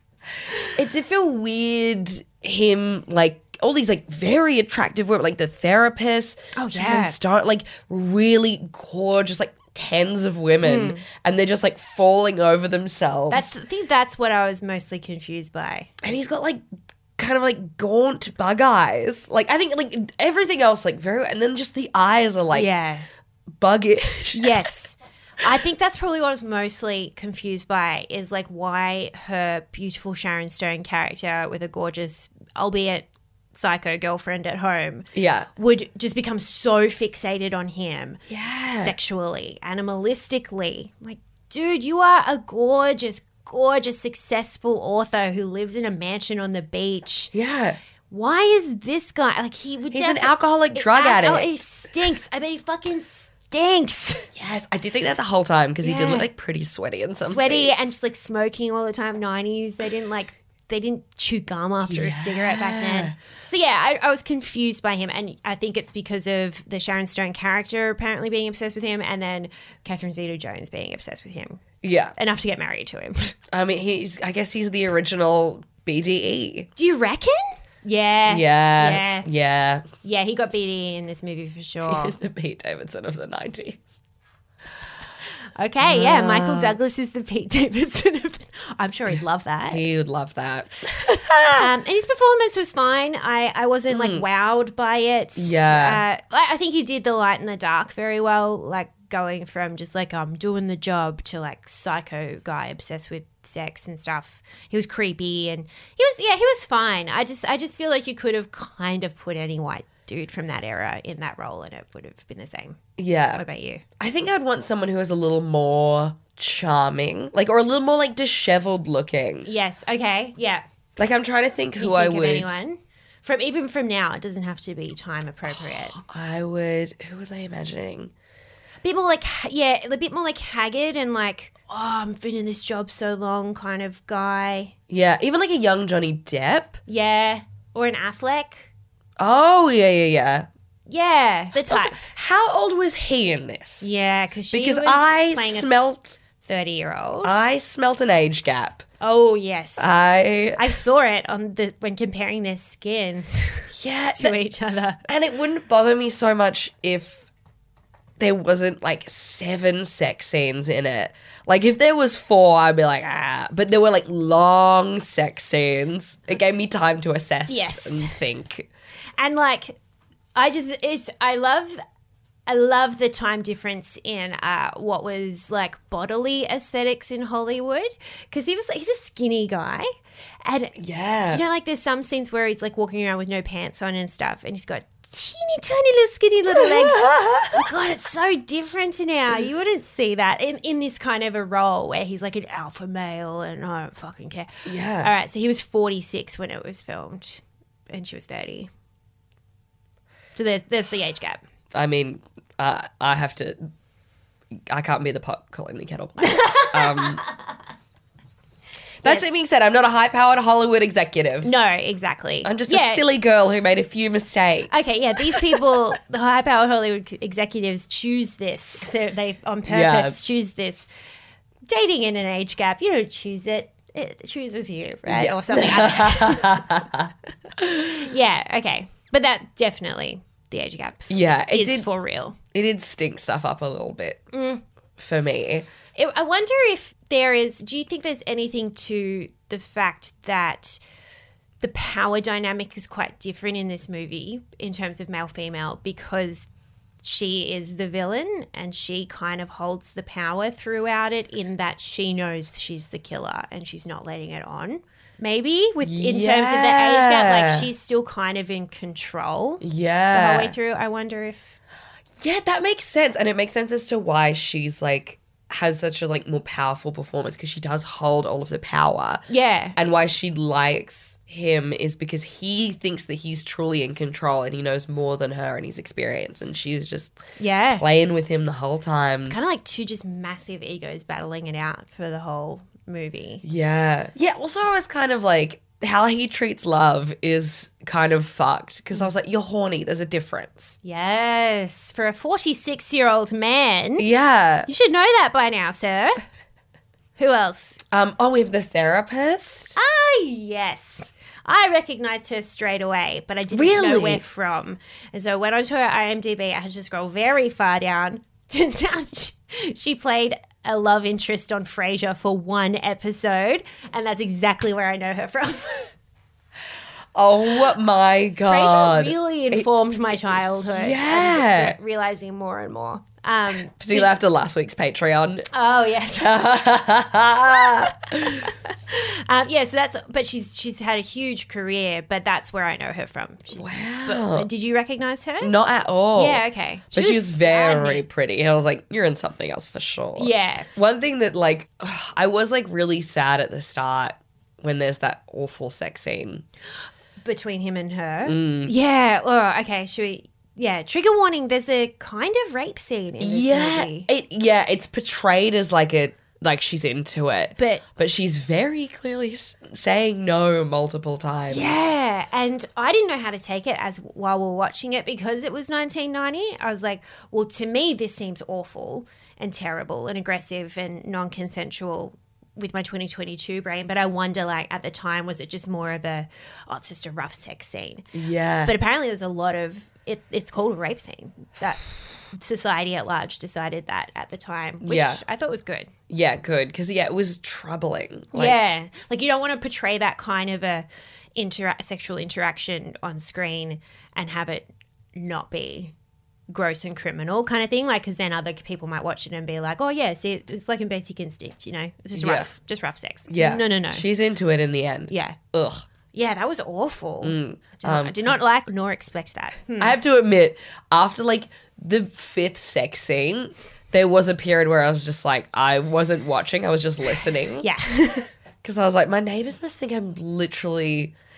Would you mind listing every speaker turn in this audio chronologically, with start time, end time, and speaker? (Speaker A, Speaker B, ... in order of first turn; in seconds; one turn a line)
Speaker A: 0.8-13.5
Speaker B: 6.5-7.2
Speaker B: 10.6-11.1
Speaker B: 13.3-16.0
Speaker A: 16.0-16.6
Speaker A: 17.2-22.7
Speaker B: 22.5-23.1
Speaker A: 23.6-24.7
Speaker B: 24.4-38.2
Speaker A: 35.1-35.5
Speaker A: 38.3-38.9
Speaker B: 38.7-47.3
Speaker A: 47.3-47.8
Speaker B: 48.1-54.3
Speaker A: 49.9-51.6
Speaker A: 54.4-57.9
Speaker B: 55.8-56.3
Speaker B: 57.3-71.6
Speaker A: 61.9-63.1
Speaker A: 71.8-72.2
Speaker B: 72.2-73.4
Speaker A: 73.5-76.7
Speaker B: 76.8-79.3
Speaker A: 78.3-79.9
Speaker B: 80.0-82.2
Speaker A: 81.9-84.0
Speaker B: 85.6-89.8
Speaker A: 85.8-86.8
Speaker A: 89.7-91.7
Speaker B: 91.5-112.8
Speaker A: 93.9-94.2
Speaker A: 95.4-96.0
Speaker A: 113.0-113.4
Speaker B: 113.3-113.8
Speaker A: 114.0-119.5
Speaker B: 119.4-120.6
Speaker A: 121.0-122.6
Speaker B: 121.8-126.0
Speaker A: 125.6-128.1
Speaker B: 128.8-134.7
Speaker A: 134.9-136.8
Speaker B: 136.9-138.7
Speaker A: 139.2-140.5
Speaker B: 140.9-142.1
Speaker A: 141.7-143.9
Speaker B: 143.8-145.7
Speaker A: 144.5-146.2
Speaker B: 146.4-147.4
Speaker A: 147.2-148.8
Speaker B: 149.0-149.9
Speaker A: 149.8-150.7
Speaker B: 150.6-155.0
Speaker A: 153.7-154.4
Speaker A: 155.1-157.3
Speaker A: 158.2-168.7
Speaker B: 167.5-168.2
Speaker B: 169.2-169.8
Speaker B: 170.3-171.8
Speaker B: 172.5-179.9
Speaker B: 180.4-180.8
Speaker A: 180.8-181.4
Speaker B: 181.3-198.7
Speaker A: 186.5-187.6
Speaker A: 194.7-195.1
Speaker B: 200.3-201.4
Speaker A: 201.7-203.7
Speaker A: 204.7-207.2
Speaker B: 206.2-207.3
Speaker A: 209.0-211.5
Speaker B: 209.0-209.3
Speaker B: 211.4-213.1
Speaker A: 212.4-215.7
Speaker B: 214.7-220.9
Speaker A: 219.7-220.2
Speaker B: 221.7-226.8
Speaker A: 225.1-228.0
Speaker B: 227.8-232.4
Speaker A: 231.1-231.9
Speaker A: 232.5-234.3
Speaker B: 234.3-234.6
Speaker A: 235.0-235.7
Speaker B: 236.0-240.8
Speaker B: 241.6-246.5
Speaker B: 247.0-261.6
Speaker A: 255.8-257.7
Speaker A: 259.6-260.6
Speaker A: 262.2-269.2
Speaker B: 269.3-269.8
Speaker A: 269.8-277.2
Speaker B: 277.4-277.9
Speaker A: 277.7-279.4
Speaker B: 279.3-283.4
Speaker A: 283.4-290.8
Speaker B: 290.8-294.1
Speaker A: 294.0-294.7
Speaker B: 294.7-296.2
Speaker B: 297.2-297.8
Speaker A: 297.9-299.8
Speaker B: 299.8-315.9
Speaker A: 303.5-304.2
Speaker A: 317.1-319.7
Speaker B: 318.5-324.1
Speaker A: 320.7-321.8
Speaker A: 323.8-325.5
Speaker B: 325.5-326.3
Speaker A: 326.2-328.5
Speaker B: 328.6-335.5
Speaker A: 333.6-334.5
Speaker A: 335.4-346.4
Speaker B: 336.1-338.1
Speaker B: 340.2-340.7
Speaker B: 347.2-354.1
Speaker A: 348.3-348.7
Speaker A: 353.2-361.8
Speaker B: 357.6-357.9
Speaker B: 361.5-378.1
Speaker A: 378.1-378.8
Speaker B: 378.7-385.9
Speaker A: 384.8-385.2
Speaker A: 386.1-388.6
Speaker B: 388.3-395.9
Speaker B: 396.5-404.0
Speaker A: 402.2-402.5
Speaker A: 403.3-405.8
Speaker B: 405.1-405.4
Speaker B: 406.1-410.0
Speaker A: 407.2-408.4
Speaker A: 409.8-417.7
Speaker B: 417.6-418.3
Speaker A: 418.6-421.1